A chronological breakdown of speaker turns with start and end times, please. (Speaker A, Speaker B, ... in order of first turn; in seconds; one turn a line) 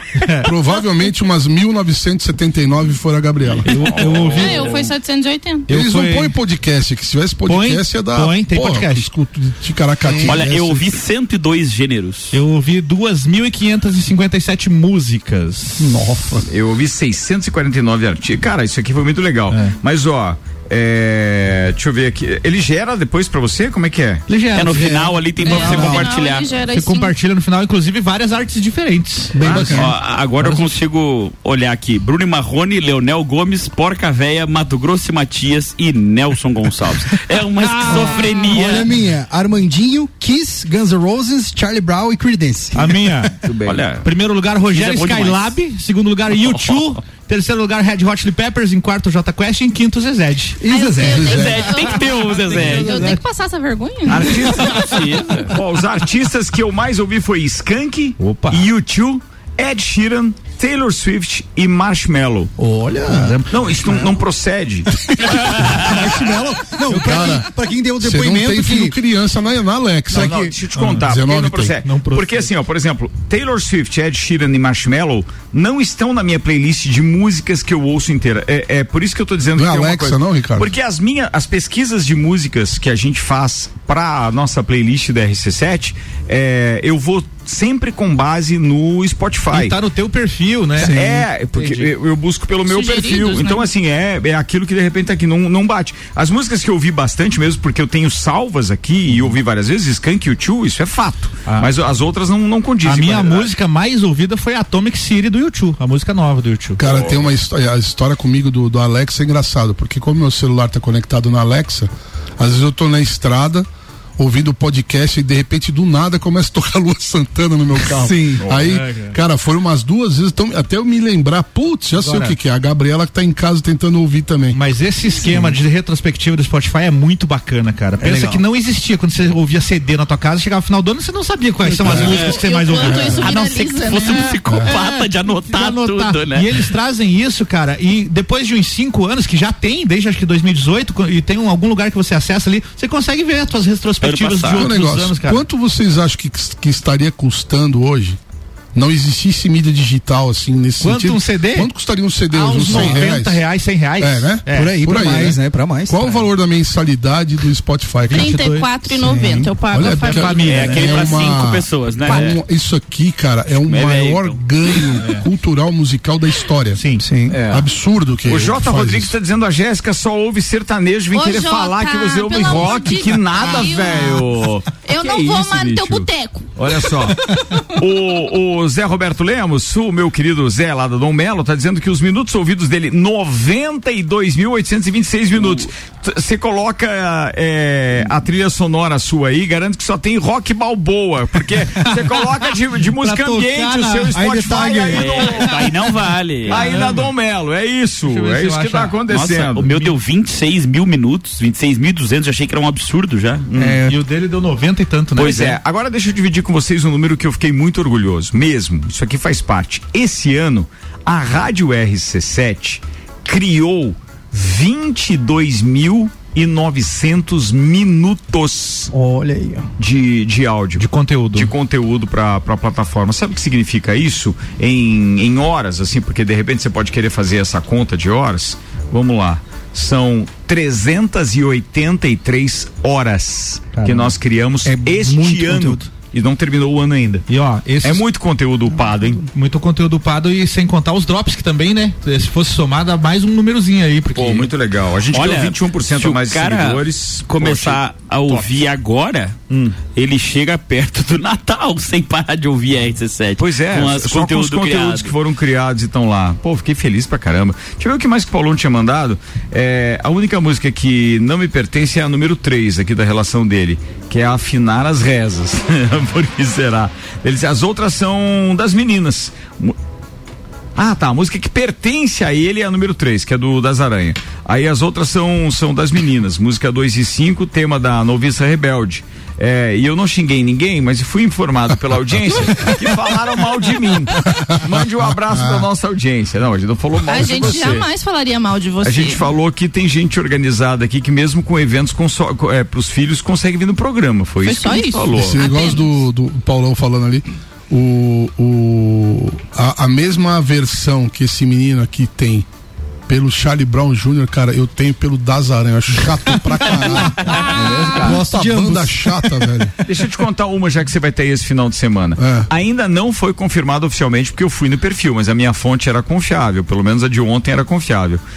Speaker A: 0.2-0.5
Speaker B: 0.5-3.7
Speaker C: 3.6-4.8
Speaker A: 3.7-4.8
Speaker D: 4.3-5.7
Speaker A: 5.7-6.4
Speaker B: 5.7-11.0
Speaker A: 7.5-9.1
Speaker E: 10.1-10.4
Speaker F: 10.2-12.3
Speaker A: 12.3-16.0
Speaker B: 15.8-16.5
Speaker C: 16.5-24.2
Speaker A: 24.3-26.1
Speaker F: 24.5-26.5
Speaker E: 24.8-26.1
Speaker D: 25.4-27.1
Speaker A: 26.7-30.8
Speaker E: 29.4-30.0
Speaker F: 29.4-38.9
Speaker A: 37.6-38.5
Speaker E: 37.9-43.0
Speaker A: 42.7-43.3
Speaker C: 43.5-43.9
Speaker F: 43.6-44.1
Speaker A: 44.0-50.6
Speaker F: 44.7-45.5
Speaker E: 50.6-51.6
Speaker D: 50.7-54.4
Speaker B: 51.0-51.7
Speaker F: 51.2-53.0
Speaker A: 51.9-53.2
Speaker E: 52.5-52.9
Speaker C: 54.1-62.5
Speaker F: 54.3-55.5
Speaker A: 58.2-58.7
Speaker E: 62.6-63.4
Speaker A: 63.1-63.9
Speaker C: 63.5-64.9
Speaker E: 65.1-69.0
Speaker A: 66.9-67.4
Speaker B: 66.9-67.5
Speaker B: 68.0-71.8
Speaker C: 70.1-89.8
Speaker E: 70.1-70.5
Speaker A: 70.8-71.0
Speaker A: 71.8-72.5
Speaker B: 79.5-80.7
Speaker A: 89.5-91.0
Speaker C: 90.8-103.5
Speaker E: 90.8-91.2
Speaker A: 91.5-91.9
Speaker D: 92.7-93.7
Speaker A: 102.8-106.8
Speaker B: 106.8-113.7
Speaker C: 106.8-107.3
Speaker B: 114.2-124.6
Speaker E: 118.0-118.4
Speaker A: 118.6-119.2
Speaker A: 122.0-122.4
Speaker A: 124.5-133.5
Speaker E: 128.0-128.4
Speaker B: 131.9-132.2
Speaker F: 131.9-136.5
Speaker D: 132.0-134.4
Speaker A: 134.0-145.4
Speaker F: 144.0-144.7
Speaker B: 144.6-148.2
Speaker B: 148.7-153.4
Speaker A: 150.8-151.7
Speaker A: 152.3-155.1
Speaker E: 152.7-153.0
Speaker B: 154.0-158.4
Speaker E: 154.5-156.0
Speaker A: 158.1-158.7
Speaker D: 158.1-160.4
Speaker E: 159.0-159.5
Speaker B: 159.7-166.8
Speaker A: 160.0-161.1
Speaker F: 160.3-162.4
Speaker F: 163.6-164.4
Speaker A: 165.0-165.3
Speaker A: 166.8-167.0
Speaker E: 167.0-167.3
Speaker C: 167.3-167.7
Speaker B: 167.4-169.1
Speaker C: 168.3-195.5
Speaker D: 171.1-176.5
Speaker D: 177.3-177.6
Speaker A: 193.0-194.2
Speaker E: 194.1-195.2
Speaker F: 194.9-196.7
Speaker A: 195.2-195.7
Speaker A: 196.4-197.1
Speaker C: 196.5-199.8
Speaker A: 198.1-199.0
Speaker F: 199.1-203.5
Speaker C: 203.5-203.8
Speaker A: 203.6-205.6
Speaker C: 205.2-218.9
Speaker E: 218.9-219.7
Speaker C: 219.8-237.2
Speaker A: 220.8-221.5
Speaker A: 233.7-234.2
Speaker E: 234.7-235.9
Speaker A: 237.3-238.1
Speaker C: 237.8-239.2
Speaker A: 239.3-244.5
Speaker C: 244.1-248.6
Speaker F: 245.1-255.1
Speaker C: 249.5-249.8
Speaker C: 253.4-269.8
Speaker C: 270.8-287.9
Speaker B: 284.4-285.7
Speaker D: 287.1-289.2
Speaker C: 288.8-295.4
Speaker D: 294.4-295.9
Speaker B: 295.1-302.5
Speaker B: 303.1-309.8
Speaker E: 306.6-309.4
Speaker C: 307.4-308.2
Speaker C: 309.9-318.2
Speaker B: 312.2-312.5